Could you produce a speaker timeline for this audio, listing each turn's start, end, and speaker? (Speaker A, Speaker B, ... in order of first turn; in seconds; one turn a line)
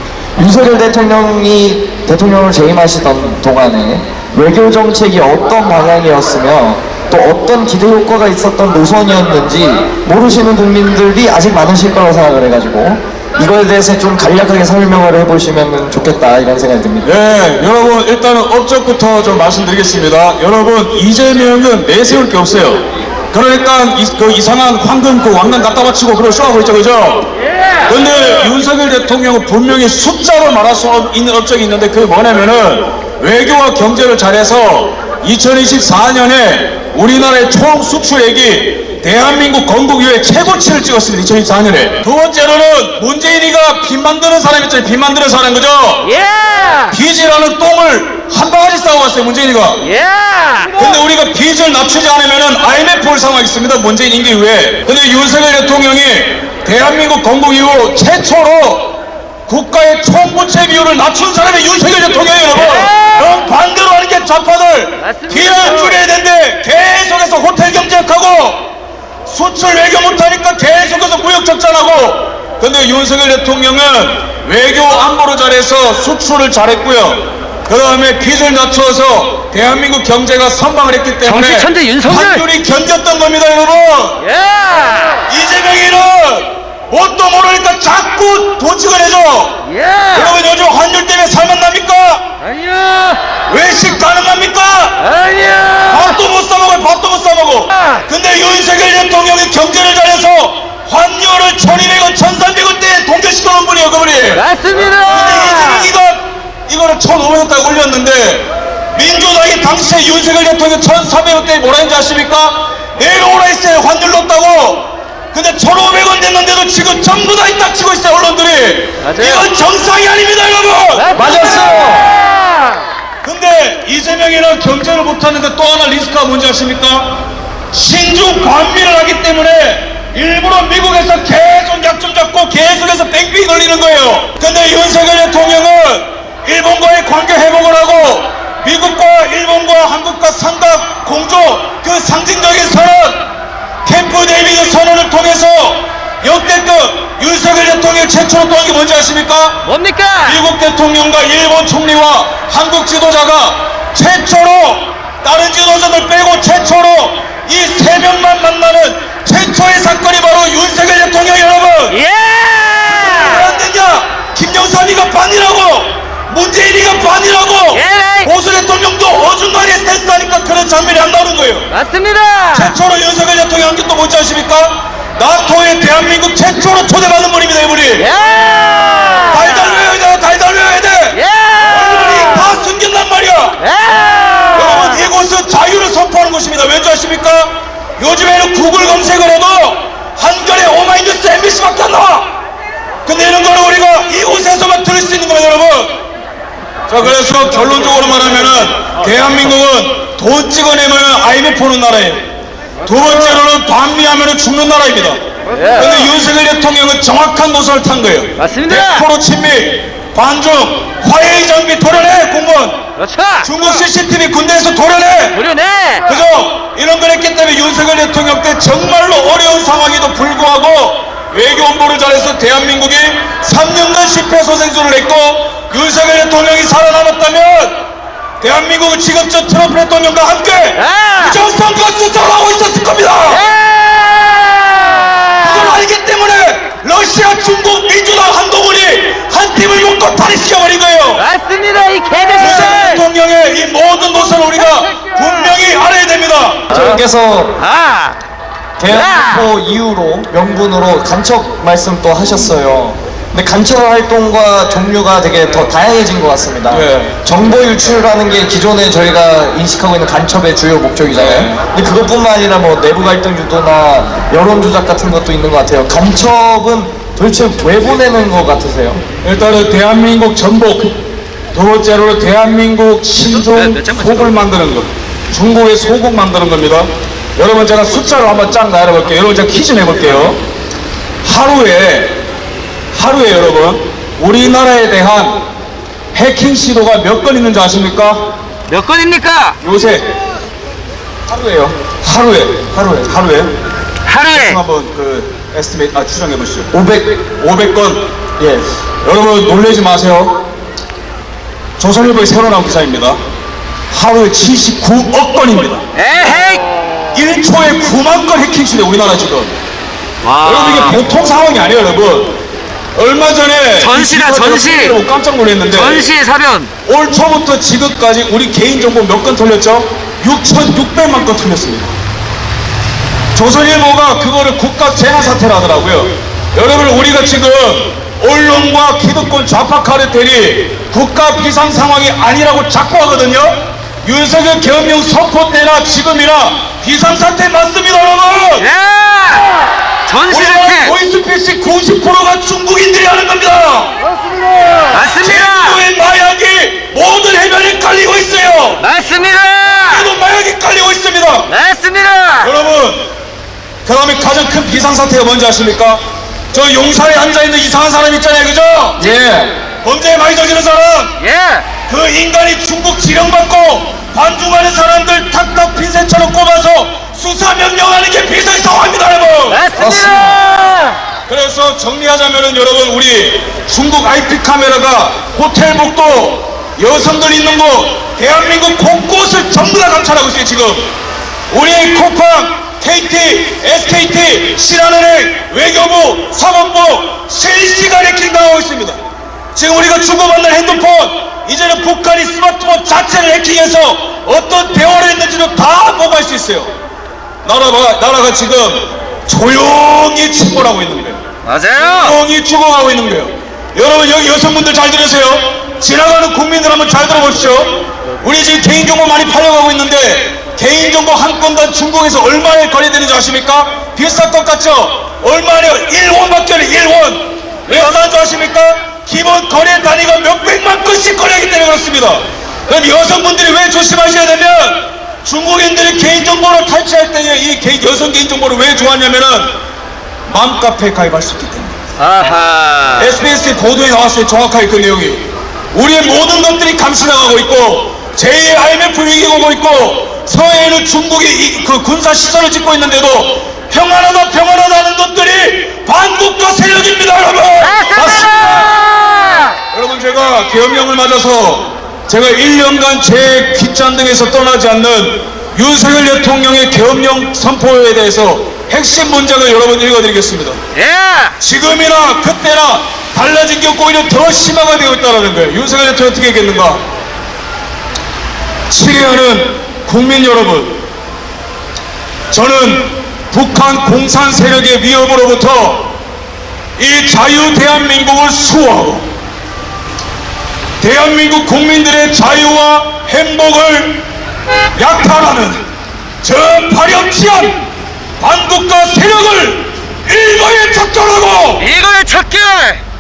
Speaker A: 0.4-17.1
Speaker B: 17.0-27.3
Speaker B: 27.9-46.1
Speaker C: 46.0-47.0
Speaker B: 46.9-49.9
Speaker C: 49.8-51.0
Speaker B: 50.8-59.0
Speaker B: 59.5-68.7
Speaker C: 62.6-63.1
Speaker C: 65.0-66.0
Speaker B: 69.3-84.2
Speaker C: 81.2-82.4
Speaker C: 84.2-85.2
Speaker B: 85.3-89.6
Speaker C: 89.7-90.4
Speaker B: 90.1-92.3
Speaker C: 92.4-93.2
Speaker B: 93.5-95.1
Speaker C: 95.0-96.1
Speaker B: 95.9-104.5
Speaker C: 104.3-105.9
Speaker B: 105.0-121.1
Speaker C: 119.0-119.5
Speaker C: 121.0-122.8
Speaker A: 121.2-122.1
Speaker B: 123.2-127.2
Speaker B: 127.7-143.3
Speaker B: 143.8-149.6
Speaker C: 149.7-150.4
Speaker B: 150.2-162.0
Speaker C: 161.9-163.4
Speaker B: 162.9-171.7
Speaker C: 167.7-168.3
Speaker C: 171.7-172.7
Speaker B: 172.5-178.1
Speaker C: 178.0-179.8
Speaker B: 179.3-183.6
Speaker C: 181.1-182.5
Speaker C: 183.6-185.0
Speaker B: 184.6-192.3
Speaker B: 193.1-196.0
Speaker B: 196.9-202.3
Speaker B: 202.8-205.2
Speaker C: 205.6-206.1
Speaker B: 205.7-212.8
Speaker C: 208.4-209.1
Speaker C: 213.0-213.5
Speaker B: 213.4-215.4
Speaker C: 215.3-216.1
Speaker B: 216.1-227.8
Speaker B: 228.4-233.5
Speaker C: 230.8-231.4
Speaker C: 233.3-235.8
Speaker B: 235.4-241.3
Speaker C: 241.2-243.0
Speaker B: 242.4-246.7
Speaker A: 246.7-247.6
Speaker C: 246.7-247.0
Speaker C: 247.6-248.2
Speaker A: 248.8-269.0
Speaker C: 248.9-249.5
Speaker B: 256.7-257.1
Speaker B: 261.1-261.7
Speaker B: 269.2-280.4
Speaker B: 281.2-282.2
Speaker B: 282.9-285.4
Speaker B: 286.1-288.2
Speaker C: 288.7-289.6
Speaker B: 289.6-290.1
Speaker A: 291.3-291.7
Speaker B: 291.6-293.5
Speaker C: 294.1-294.6
Speaker B: 294.3-296.7
Speaker A: 296.7-297.2
Speaker B: 297.4-298.1
Speaker A: 298.4-298.7
Speaker B: 299.0-300.4
Speaker B: 301.8-303.2
Speaker B: 303.9-305.9
Speaker C: 305.9-306.6
Speaker B: 307.1-309.6
Speaker C: 310.2-311.0
Speaker B: 310.4-312.4
Speaker B: 312.9-316.1
Speaker C: 313.8-315.0
Speaker C: 315.7-316.7
Speaker B: 316.9-321.9
Speaker B: 323.3-338.7
Speaker C: 338.6-340.9
Speaker B: 340.3-344.0
Speaker C: 344.2-345.8
Speaker B: 345.2-348.9
Speaker C: 348.8-350.1
Speaker B: 349.9-351.5
Speaker C: 351.5-352.5
Speaker B: 352.4-353.1
Speaker B: 353.9-356.0
Speaker B: 356.5-359.0
Speaker A: 359.0-359.6
Speaker B: 359.8-361.2
Speaker C: 361.2-361.7
Speaker B: 361.9-369.6
Speaker C: 369.5-371.0
Speaker A: 369.8-370.4
Speaker B: 371.3-380.9
Speaker B: 381.5-389.0
Speaker B: 389.5-396.7
Speaker B: 397.4-401.2
Speaker C: 401.5-402.2
Speaker B: 401.8-429.6
Speaker B: 430.3-431.8
Speaker C: 432.0-433.1
Speaker B: 433.0-448.8
Speaker C: 447.6-449.6
Speaker B: 449.7-460.6
Speaker C: 460.8-461.4
Speaker B: 461.4-466.8
Speaker B: 468.7-470.8
Speaker B: 472.3-475.9
Speaker B: 476.8-479.1
Speaker B: 480.8-484.1
Speaker B: 484.8-485.6
Speaker B: 486.2-487.6
Speaker B: 488.2-491.7
Speaker C: 491.6-492.8